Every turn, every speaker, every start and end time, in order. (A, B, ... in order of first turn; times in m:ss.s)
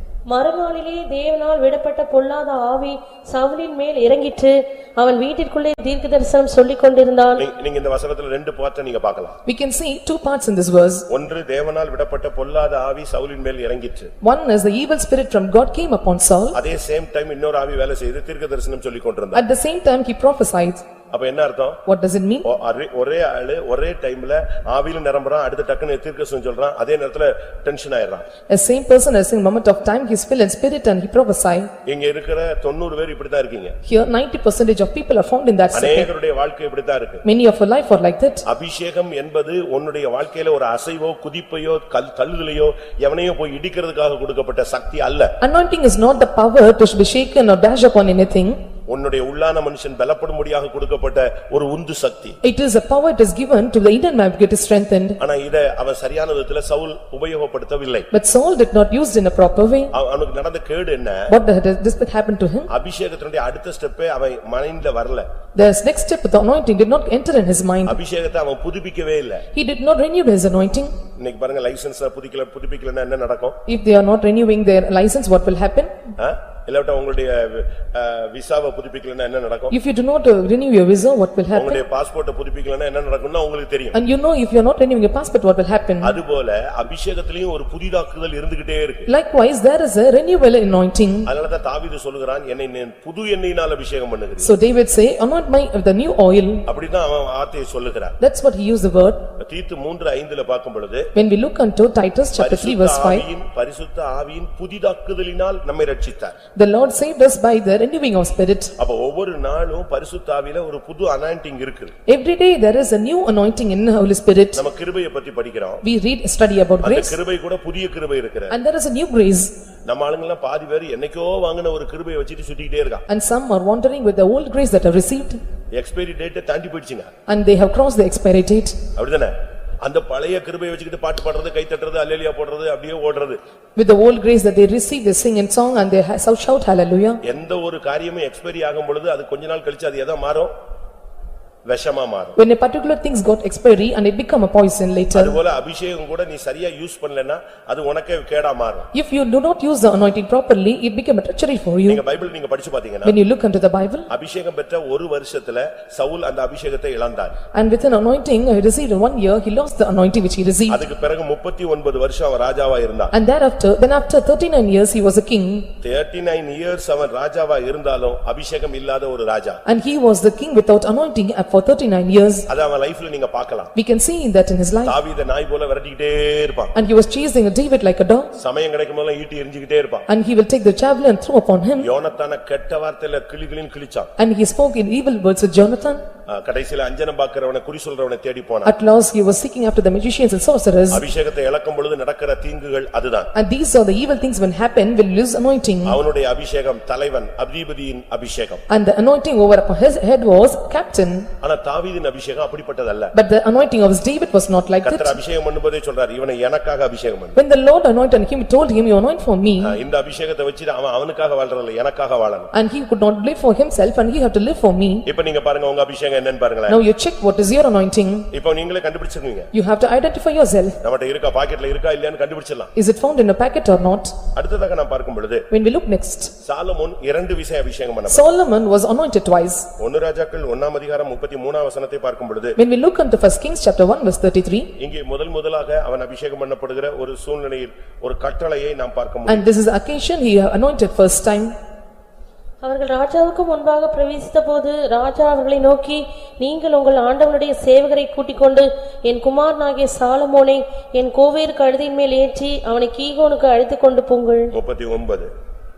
0:00.3-0:07.4 A
0:07.4-0:09.4 B
0:09.5-0:11.1 C
0:11.1-0:14.1 B
0:14.2-0:16.6 C
0:16.5-0:19.4 B
0:19.3-0:20.8 C
0:21.1-0:21.8 B
0:21.9-0:22.4 C
0:22.4-0:28.3 B
0:28.5-0:31.7 C
0:31.8-0:33.8 B
0:33.9-0:36.1 C
0:35.7-0:37.2 B
0:37.2-0:38.4 C
0:38.4-0:45.3 B
0:45.4-0:48.6 C
0:48.9-0:52.4 B
0:52.4-0:55.2 C
0:55.2-0:58.1 B
0:58.1-0:59.9 C
0:59.9-1:01.3 B
1:01.3-1:02.7 C
1:02.7-1:05.3 B
1:05.6-1:08.0 C
1:07.8-1:09.5 B
1:09.5-1:10.9 C
1:11.2-1:13.6 B
1:13.7-1:16.0 C
1:16.2-1:19.7 B
1:19.7-1:21.8 C
1:21.5-1:24.0 B
1:23.9-1:26.2 C
1:26.0-1:29.1 B
1:29.1-1:31.3 C
1:31.3-1:34.5 B
1:34.4-1:36.6 C
1:36.7-1:38.2 B
1:38.2-1:39.2 C
1:39.4-1:41.1 B
1:41.2-1:43.3 C
1:42.4-1:46.4 B
1:46.6-1:48.7 C
1:48.8-1:52.0 B
1:52.1-1:54.6 C
1:54.5-1:55.8 B
1:55.8-1:57.2 C
1:56.8-1:58.6 B
1:58.5-1:59.5 C
1:59.9-2:03.0 B
2:03.1-2:05.4 C
2:05.8-2:07.1 B
2:07.3-2:08.8 C
2:09.0-2:13.4 B
2:13.8-2:17.2 C
2:17.2-2:20.5 B
2:21.7-2:22.4 B
2:22.4-2:25.4 C
2:25.1-2:28.9 B
2:28.9-2:32.0 C
2:31.9-2:33.2 B
2:33.0-2:34.1 C
2:34.1-2:37.4 B
2:37.5-2:40.8 C
2:40.7-2:43.1 B
2:43.1-2:45.7 C
2:45.8-2:49.6 B
2:49.7-2:52.5 C
2:52.5-2:53.7 B
2:53.8-2:55.0 C
2:54.8-2:56.7 B
2:56.8-2:58.3 C
2:58.4-3:00.1 B
3:00.1-3:01.9 C
3:01.8-3:04.1 B
3:04.2-3:06.0 C
3:06.3-3:08.7 B
3:08.6-3:11.0 C
3:10.9-3:13.3 B
3:13.3-3:16.0 C
3:15.8-3:18.6 B
3:18.7-3:21.3 C
3:21.4-3:23.1 B
3:23.1-3:25.2 C
3:24.8-3:27.4 B
3:27.4-3:29.8 C
3:29.6-3:32.5 B
3:32.5-3:35.0 C
3:35.1-3:36.8 B
3:36.7-3:38.3 C
3:38.3-3:39.5 B
3:39.5-3:40.8 C
3:40.8-3:42.7 B
3:42.8-3:44.1 C
3:44.3-3:45.5 B
3:45.5-3:46.3 C
3:46.4-3:48.2 B
3:48.1-3:49.7 C
3:49.8-3:52.6 B
3:52.6-3:54.7 C
3:54.8-3:59.5 B
3:59.3-4:01.5 C
4:02.6-4:14.5 A
4:14.5-4:15.3 B